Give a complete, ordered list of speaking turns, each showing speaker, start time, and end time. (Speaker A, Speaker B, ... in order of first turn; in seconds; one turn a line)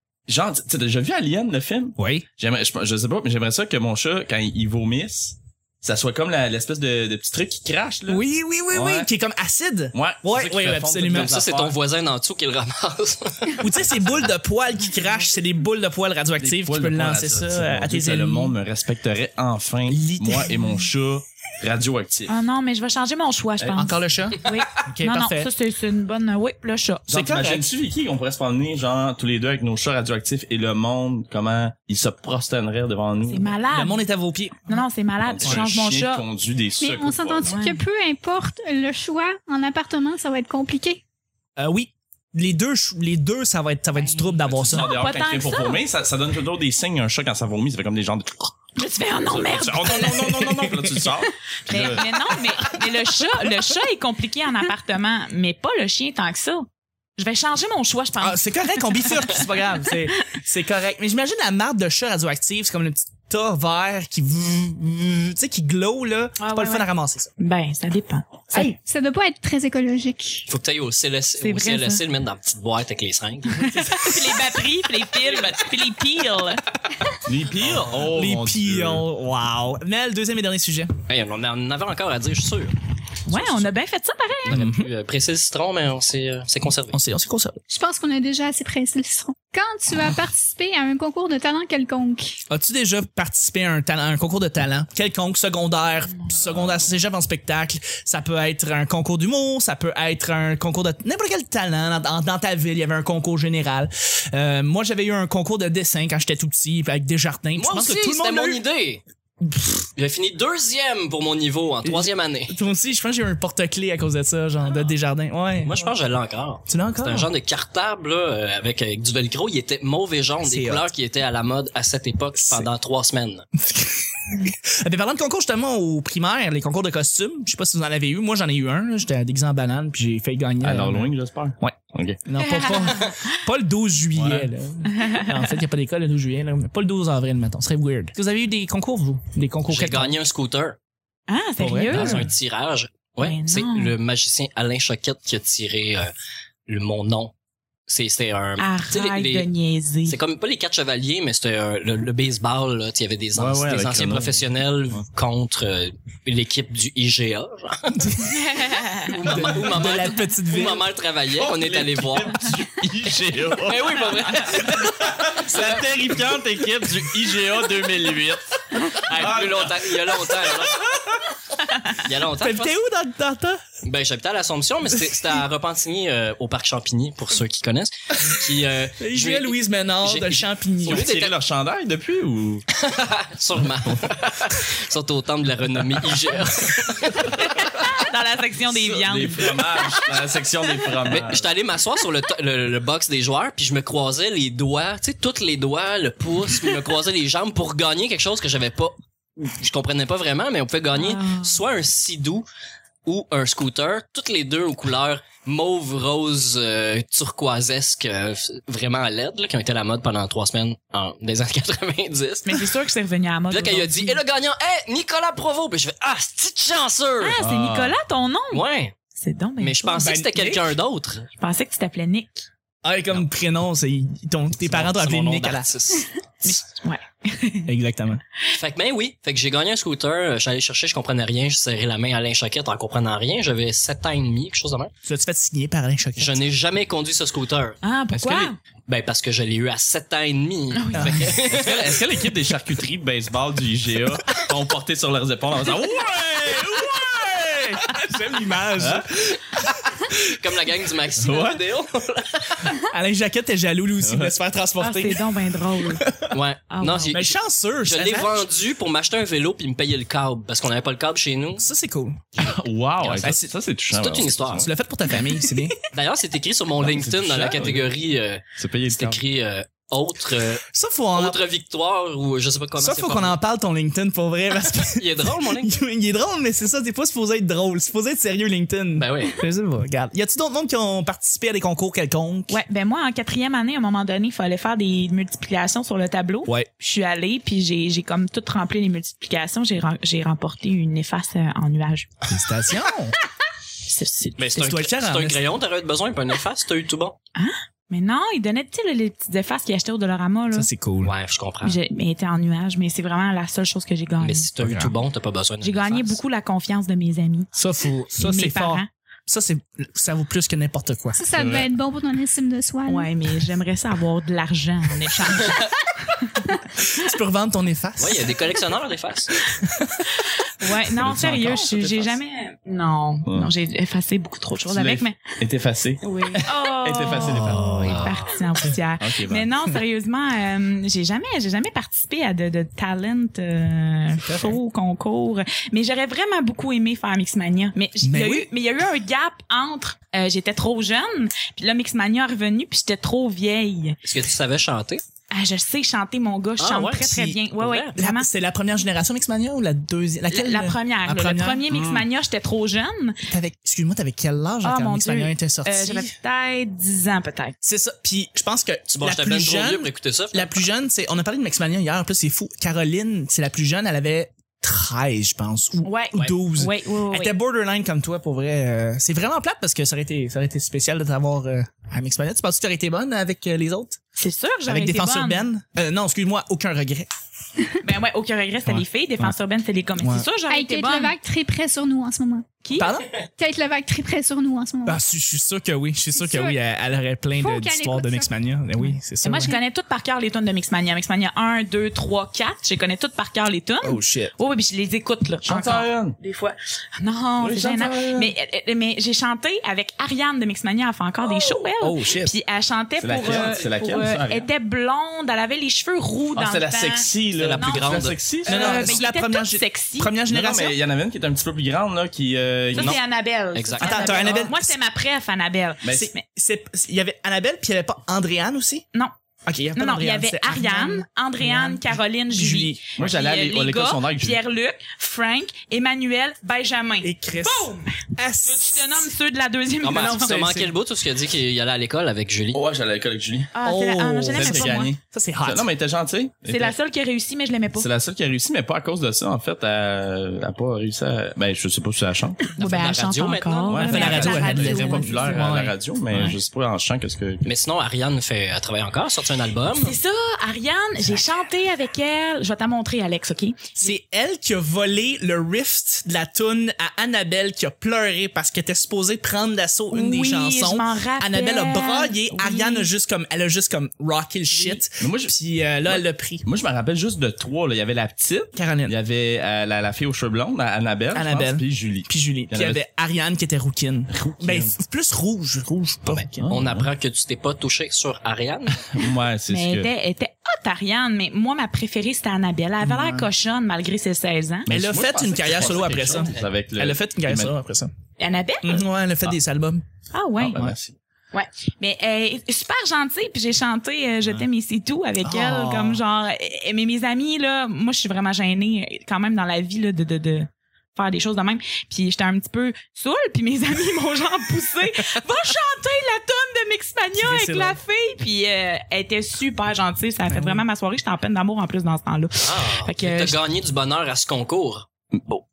Speaker A: 0.3-9.1
Speaker B: 2.0-2.3
Speaker B: 8.1-11.4
Speaker A: 9.9-11.8
Speaker C: 11.1-14.0
Speaker B: 13.6-18.6
Speaker A: 16.4-22.3
Speaker B: 19.9-20.7
Speaker D: 22.3-27.1
Speaker B: 23.8-25.5
Speaker B: 27.1-27.7
Speaker A: 27.1-33.6
Speaker D: 33.3-34.0
Speaker B: 33.7-34.8
Speaker D: 34.7-36.2
Speaker A: 35.2-37.5
Speaker E: 36.8-41.0
Speaker D: 37.4-37.8
Speaker B: 41.6-44.9
Speaker D: 44.0-45.8
Speaker A: 44.5-48.5
Speaker D: 48.8-50.7
Speaker A: 49.3-52.5
Speaker D: 51.7-60.0
Speaker B: 58.2-67.3
Speaker D: 66.4-66.9
Speaker D: 67.4-68.5
Speaker E: 68.5-70.5
Speaker C: 70.5-74.1
Speaker D: 71.4-72.0
Speaker D: 73.7-76.6
Speaker A: 77.2-79.0
Speaker B: 77.9-80.9
Speaker C: 81.1-82.7
Speaker D: 83.3-84.6
Speaker C: 83.3-83.7
Speaker C: 84.5-87.0
Speaker B: 84.5-84.9
Speaker B: 86.9-87.6
Speaker E: 87.7-92.4
Speaker B: 92.5-108.6
Speaker C: 107.6-109.0
Speaker B: 109.4-109.9
Speaker C: 110.0-112.6
Speaker B: 111.8-115.8
Speaker C: 115.6-123.5
Speaker B: 116.7-117.3
Speaker B: 120.4-120.9
Speaker B: 122.4-122.7
Speaker B: 123.6-131.1
Speaker A: 130.6-132.2
Speaker B: 131.6-140.2
Speaker D: 132.4-133.2
Speaker A: 134.2-134.5
Speaker D: 135.0-135.3
Speaker C: 139.7-140.8
Speaker D: 141.3-142.3
Speaker B: 141.6-142.3
Speaker C: 141.9-146.1
Speaker D: 143.2-143.9
Speaker C: 146.7-147.3
Speaker C: 147.9-149.5
Speaker D: 148.6-150.2
Speaker C: 150.1-158.2
Speaker A: 153.3-154.4
Speaker B: 157.9-158.5
Speaker D: 158.2-159.2
Speaker C: 159.1-162.5
Speaker B: 159.2-160.9
Speaker A: 161.3-171.2
Speaker C: 163.6-165.9
Speaker C: 169.0-170.8
Speaker C: 172.0-172.8
Speaker B: 172.4-173.6
Speaker C: 173.8-181.3
Speaker B: 179.0-181.1
Speaker A: 180.9-182.7
Speaker C: 182.7-187.6
Speaker D: 187.6-189.9
Speaker A: 188.7-191.4
Speaker C: 191.1-202.5
Speaker D: 201.0-201.6
Speaker C: 203.1-212.6
Speaker D: 212.5-214.2
Speaker C: 213.5-217.4
Speaker D: 217.2-220.1
Speaker A: 217.4-218.0
Speaker C: 218.5-218.9
Speaker C: 219.6-221.3
Speaker B: 220.0-220.7
Speaker D: 221.4-222.5
Speaker B: 222.8-225.7
Speaker C: 224.6-226.6
Speaker D: 226.4-227.7
Speaker B: 227.7-228.2
Speaker C: 228.5-234.9
Speaker B: 235.0-236.4
Speaker C: 236.2-242.0
Speaker D: 237.8-238.6
Speaker D: 240.7-241.3
Speaker B: 240.9-241.3
Speaker A: 241.5-248.0
Speaker B: 247.9-249.6
Speaker A: 248.8-249.1
Speaker C: 250.3-252.7
Speaker A: 251.2-251.6
Speaker B: 252.8-255.2
Speaker A: 254.0-254.3
Speaker D: 254.8-256.0
Speaker C: 256.3-261.7
Speaker D: 256.7-257.2
Speaker B: 257.1-258.5
Speaker B: 261.6-262.4
Speaker A: 262.4-264.7
Speaker C: 263.0-263.3
Speaker B: 263.2-263.5
Speaker C: 263.9-264.7
Speaker B: 264.5-265.8
Speaker C: 265.9-270.6
Speaker A: 266.8-267.9
Speaker A: 268.6-269.2
Speaker B: 270.7-271.4
Speaker C: 271.1-273.4
Speaker B: 272.8-282.6
Speaker C: 274.9-275.8
Speaker C: 279.0-279.4
Speaker D: 282.5-292.1
Speaker B: 292.3-293.2
Speaker D: 293.8-294.8
Speaker C: 294.4-297.2
Speaker B: 294.6-295.5
Speaker D: 297.4-300.7
Speaker B: 300.5-301.1
Speaker C: 301.0-301.8
Speaker D: 301.6-304.5
Speaker C: 304.2-306.2
Speaker B: 304.6-304.9
Speaker D: 305.6-307.5
Speaker B: 307.5-311.2
Speaker D: 308.2-308.9
Speaker E: 311.2-313.1
Speaker A: 311.4-311.7
Speaker D: 312.9-316.5
Speaker B: 316.8-318.4
Speaker C: 318.0-319.3
Speaker B: 319.5-320.1
Speaker D: 320.2-325.2
Speaker A: 321.0-322.2
Speaker A: 323.3-323.5
Speaker A: 324.7-328.0
Speaker D: 326.0-344.0
Speaker C: 327.5-328.4
Speaker B: 327.6-327.9
Speaker A: 329.0-329.5
Speaker B: 334.2-334.6
Speaker B: 338.0-338.5
Speaker C: 344.0-345.0
Speaker D: 345.3-348.3
Speaker C: 346.6-348.0
Speaker B: 347.0-347.4
Speaker B: 348.0-351.7
Speaker D: 350.3-353.2
Speaker A: 351.7-352.1
Speaker B: 353.3-356.1
Speaker D: 354.6-357.6
Speaker B: 357.6-374.0
Speaker C: 358.9-360.5
Speaker D: 365.8-367.3
Speaker D: 374.2-375.5
Speaker B: 374.7-377.1
Speaker D: 377.8-381.1
Speaker B: 378.6-379.4
Speaker B: 380.0-380.3
Speaker E: 380.5-382.5
Speaker D: 382.6-383.0
Speaker B: 382.8-383.1
Speaker E: 383.3-385.0
Speaker B: 384.9-389.6
Speaker E: 386.2-386.6
Speaker E: 387.4-388.3
Speaker D: 389.2-410.2
Speaker B: 393.8-394.3
Speaker A: 395.4-396.2
Speaker A: 397.4-398.3
Speaker B: 401.8-402.3
Speaker A: 403.0-404.5
Speaker A: 406.4-409.0
Speaker C: 407.4-408.2
Speaker B: 408.5-410.8
Speaker A: 410.3-413.0
Speaker D: 412.7-416.2
Speaker C: 413.5-414.3
Speaker B: 413.8-414.8
Speaker A: 415.8-416.1
Speaker B: 415.9-418.9
Speaker B: 419.5-422.8
Speaker D: 419.8-430.4
Speaker A: 423.0-424.4
Speaker B: 427.0-429.1
Speaker C: 429.8-432.6
Speaker B: 429.9-430.7
Speaker A: 432.5-433.5
Speaker D: 433.5-434.9
Speaker B: 433.6-435.7
Speaker A: 434.3-436.8
Speaker D: 436.5-437.9
Speaker A: 437.8-442.5
Speaker D: 442.6-445.5
Speaker C: 442.6-444.5
Speaker A: 443.7-447.5
Speaker B: 443.8-446.4
Speaker C: 447.4-450.0
Speaker D: 449.7-453.9
Speaker B: 453.8-466.4
Speaker D: 459.9-462.9
Speaker D: 464.5-464.8
Speaker A: 465.0-465.4
Speaker A: 465.9-472.8
Speaker B: 468.6-468.9
Speaker B: 471.1-476.5
Speaker A: 474.1-474.7
Speaker C: 476.1-479.0
Speaker A: 476.4-476.9
Speaker A: 478.9-479.9
Speaker D: 479.5-484.7
Speaker B: 482.8-483.3
Speaker A: 484.7-487.5
Speaker B: 484.7-487.9
Speaker D: 488.2-488.9
Speaker B: 488.6-489.8
Speaker D: 490.1-490.6
Speaker A: 490.4-491.0
Speaker D: 491.3-513.4
Speaker B: 495.2-496.0
Speaker B: 507.2-507.8
Speaker B: 510.3-510.6
Speaker C: 512.4-514.9
Speaker A: 515.1-515.4